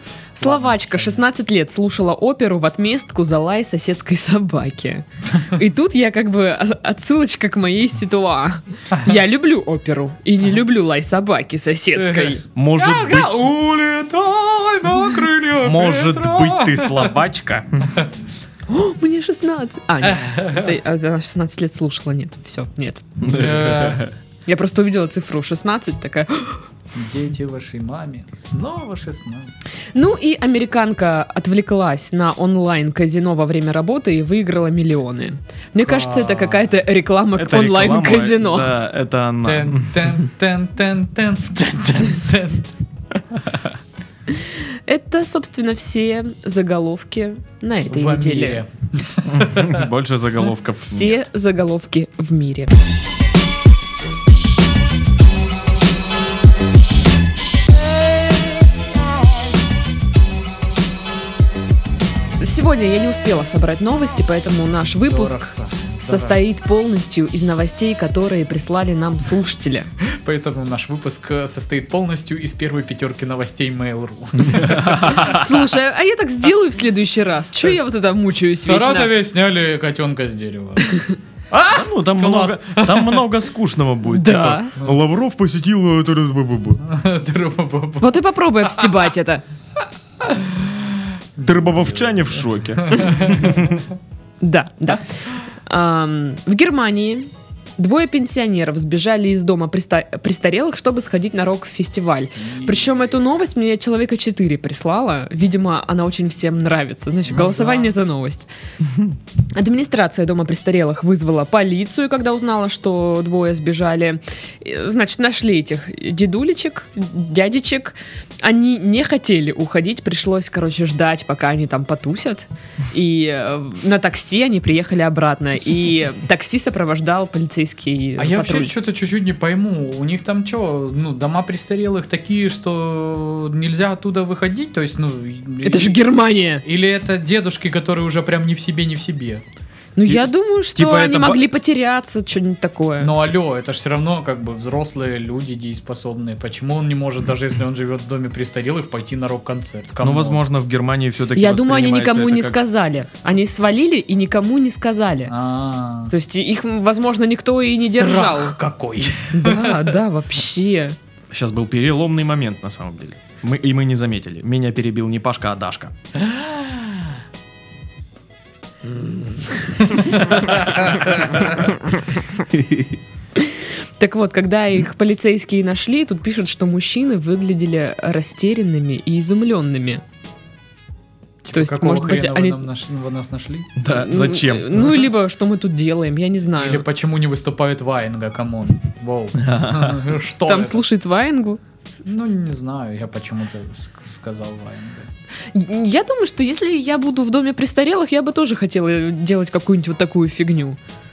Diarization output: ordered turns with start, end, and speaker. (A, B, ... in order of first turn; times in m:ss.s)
0:00.4-0:12.4 A
0:00.4-0:01.2 B
0:12.0-0:17.1 B
0:12.6-0:13.5 C
0:15.6-0:18.0 C
0:18.7-0:23.0 A
0:20.0-0:20.7 B
0:23.2-0:24.1 C
0:23.2-0:24.1 B
0:24.4-0:26.6 A
0:26.9-0:29.5 B
0:29.9-0:38.7 A
0:35.8-0:36.7 B
0:37.3-0:40.2 C
0:39.4-0:42.7 B
0:44.3-0:48.6 A
0:47.9-0:49.9 B
0:49.3-0:51.2 C
0:50.8-0:52.8 A
1:02.4-1:05.5 A
1:05.0-1:06.4 B
1:06.0-1:09.9 A
1:10.2-1:15.5 B
1:14.5-1:15.4 C
1:15.1-1:19.1 A
1:18.6-1:21.0 B
1:20.9-1:21.1 A
1:21.5-1:23.2 B
1:21.7-1:26.8 C
1:24.1-1:24.7 A
1:26.8-1:28.2 B
1:28.0-1:29.4 A
1:30.2-1:32.0 B
1:31.4-1:33.8 C
1:32.8-1:33.7 B
1:34.4-1:48.5 A
1:42.4-1:42.8 B
1:47.3-1:47.9 B
1:49.5-2:08.7 A
2:08.2-2:16.0 B
2:15.6-2:16.6 A
2:16.6-2:19.4 B
2:20.0-2:23.1 A
2:20.7-2:21.4 C
2:23.0-2:30.4 B
2:30.0-2:32.6 C
2:31.3-2:35.3 A
2:35.3-2:36.1 B
2:36.1-2:38.6 A
2:37.8-2:39.9 B
2:39.3-2:41.0 A
2:41.3-2:45.9 C
2:46.2-2:47.0 B
2:49.8-2:51.6 B
2:52.5-2:53.0 C
2:53.4-3:00.0 A
3:01.4-3:03.7 B
3:01.5-3:02.6 A
3:03.8-3:05.1 C
3:03.9-3:06.8 A
3:06.5-3:10.8 B
3:09.4-3:10.0 C
3:10.4-3:11.6 A
3:12.0-3:15.1 B
3:15.5-3:20.8 A